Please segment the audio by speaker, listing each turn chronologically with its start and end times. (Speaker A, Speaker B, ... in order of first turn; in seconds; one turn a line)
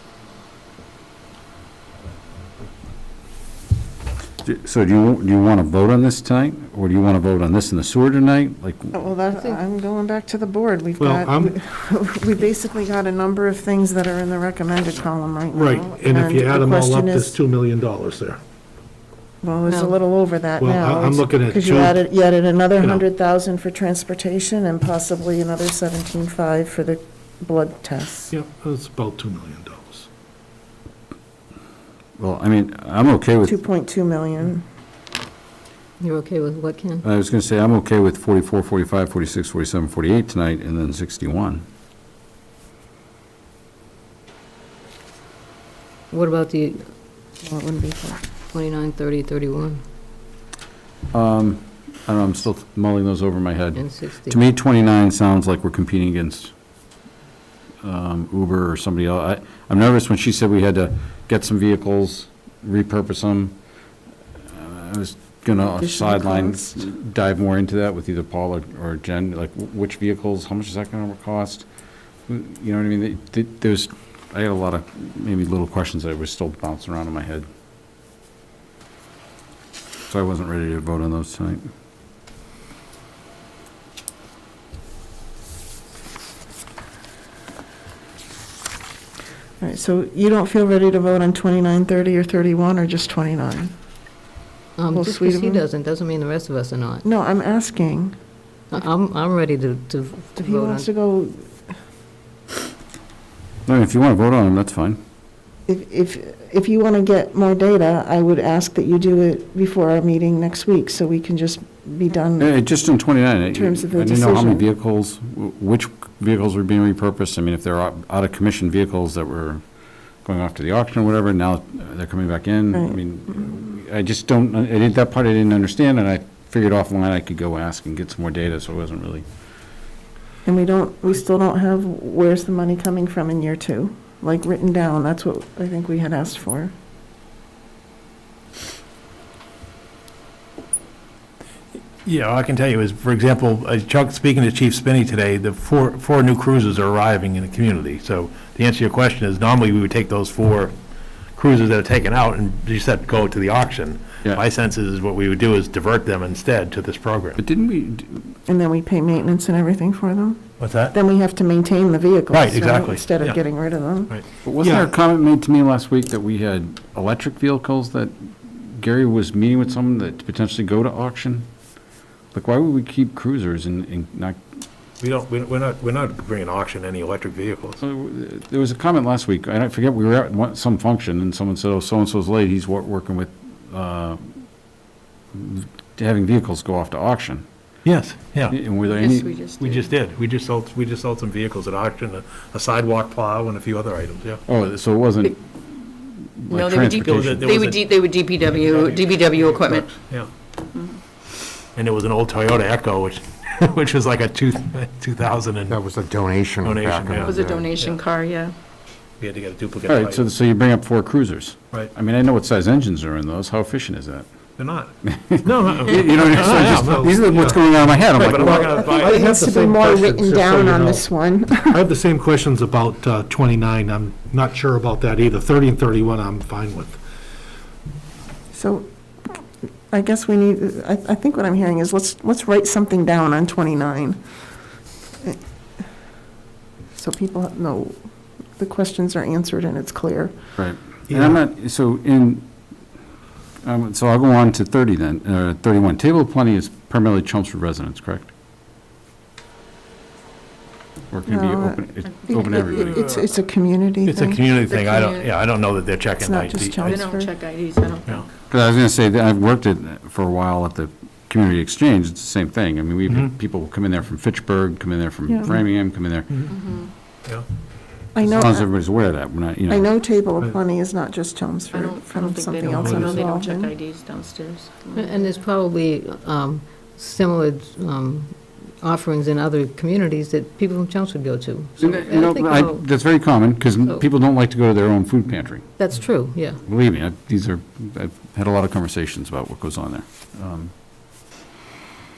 Speaker A: 4.4-9.0
Speaker B: 8.9-17.4
Speaker C: 9.3-9.6
Speaker D: 11.0-11.6
Speaker D: 15.5-18.4
Speaker B: 19.4-28.3
Speaker C: 19.7-19.9
Speaker D: 20.6-22.0
Speaker D: 28.3-30.1
Speaker A: 32.2-33.6
Speaker B: 33.5-34.6
Speaker C: 36.0-37.0
Speaker A: 37.0-41.7
Speaker C: 46.1-46.8
Speaker B: 47.4-48.2
Speaker C: 48.5-49.8
Speaker A: 51.1-56.5
Speaker C: 53.8-54.4
Speaker A: 57.8-63.6
Speaker A: 64.5-71.7
Speaker B: 65.6-66.8
Speaker A: 72.3-77.5
Speaker A: 80.1-81.7
Speaker B: 89.6-93.7
Speaker C: 94.8-97.0
Speaker B: 94.9-95.6
Speaker B: 97.0-98.1
Speaker C: 98.7-100.9
Speaker B: 100.4-101.5
Speaker A: 103.7-105.0
Speaker B: 105.7-112.5
Speaker A: 112.4-119.6
Speaker B: 113.5-114.7
Speaker A: 120.2-129.2
Speaker B: 122.7-123.0
Speaker B: 130.4-136.7
Speaker E: 142.1-150.7
Speaker E: 151.4-157.4
Speaker A: 157.4-158.3
Speaker B: 158.5-164.1
Speaker E: 160.6-160.9
Speaker E: 162.3-163.4
Speaker A: 164.4-171.5
Speaker D: 164.6-164.9
Speaker A: 172.3-174.4
Speaker E: 175.0-177.8
Speaker A: 177.8-184.2
Speaker A: 185.3-187.4
Speaker E: 187.8-188.6
Speaker A: 188.5-189.3
Speaker F: 188.9-189.9
Speaker E: 189.6-194.4
Speaker A: 194.5-197.6
Speaker F: 196.5-199.9
Speaker E: 197.0-197.9
Speaker E: 198.5-200.3
Speaker E: 201.8-205.8
Speaker G: 205.7-207.7
Speaker E: 206.6-208.0
Speaker F: 207.2-208.5
Speaker E: 209.2-210.3
Speaker A: 209.9-214.3
Speaker E: 214.6-217.5
Speaker A: 215.3-218.8
Speaker D: 216.5-217.6
Speaker E: 218.1-219.3
Speaker D: 218.2-221.1
Speaker B: 218.7-221.8
Speaker D: 221.7-227.0
Speaker B: 228.5-234.2
Speaker B: 237.0-238.0
Speaker B: 238.6-240.3
Speaker A: 240.6-242.5
Speaker D: 241.1-241.4
Speaker A: 243.6-248.3
Speaker A: 251.1-253.0
Speaker B: 251.3-254.4
Speaker E: 252.9-253.2
Speaker E: 254.1-257.1
Speaker F: 254.7-255.3
Speaker B: 256.2-257.4
Speaker F: 256.9-258.2
Speaker A: 258.5-266.4
Speaker F: 266.5-266.9
Speaker B: 268.1-268.7
Speaker A: 268.2-269.9
Speaker B: 269.7-273.7
Speaker F: 271.7-275.3
Speaker C: 274.9-282.8
Speaker A: 281.8-285.7
Speaker C: 285.8-286.6
Speaker A: 286.6-290.7